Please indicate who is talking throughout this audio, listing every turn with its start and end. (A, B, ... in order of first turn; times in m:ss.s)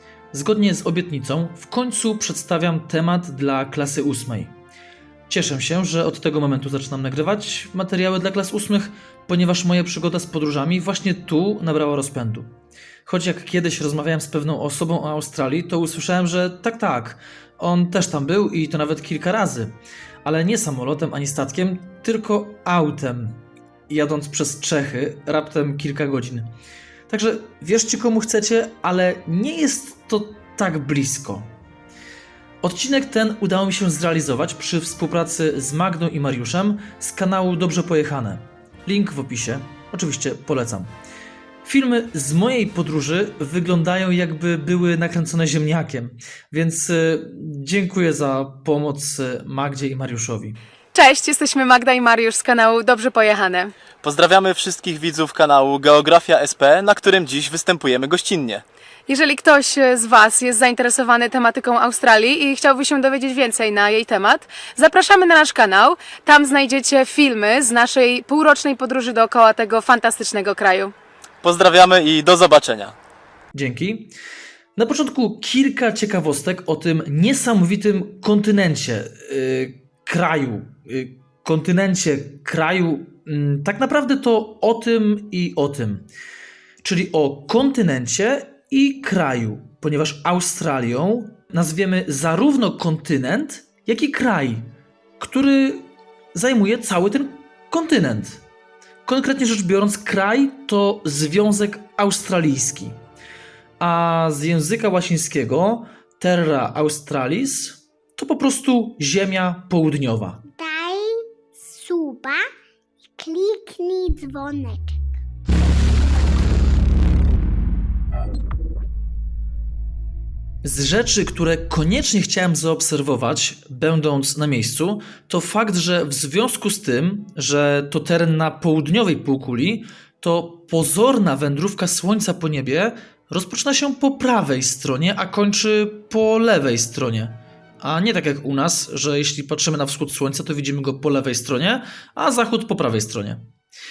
0:00.3-0:04.5 A
0:05.3-0:12.5 A
0:13.1-0:26.5 A
0:27.1-0:31.5 A
0:32.6-0:40.9 A
0:41.6-0:50.6 A
0:50.9-0:53.7 B
0:54.0-0:58.6 C
0:59.1-1:10.9 B
1:11.4-1:13.0 C
1:13.5-1:14.1 A
1:14.8-1:26.1 A
1:26.8-1:38.4 A
1:39.0-1:43.0 A
1:43.8-1:50.4 A
1:50.5-1:52.4 D
1:53.2-1:55.0 D
2:00.6-2:23.4 A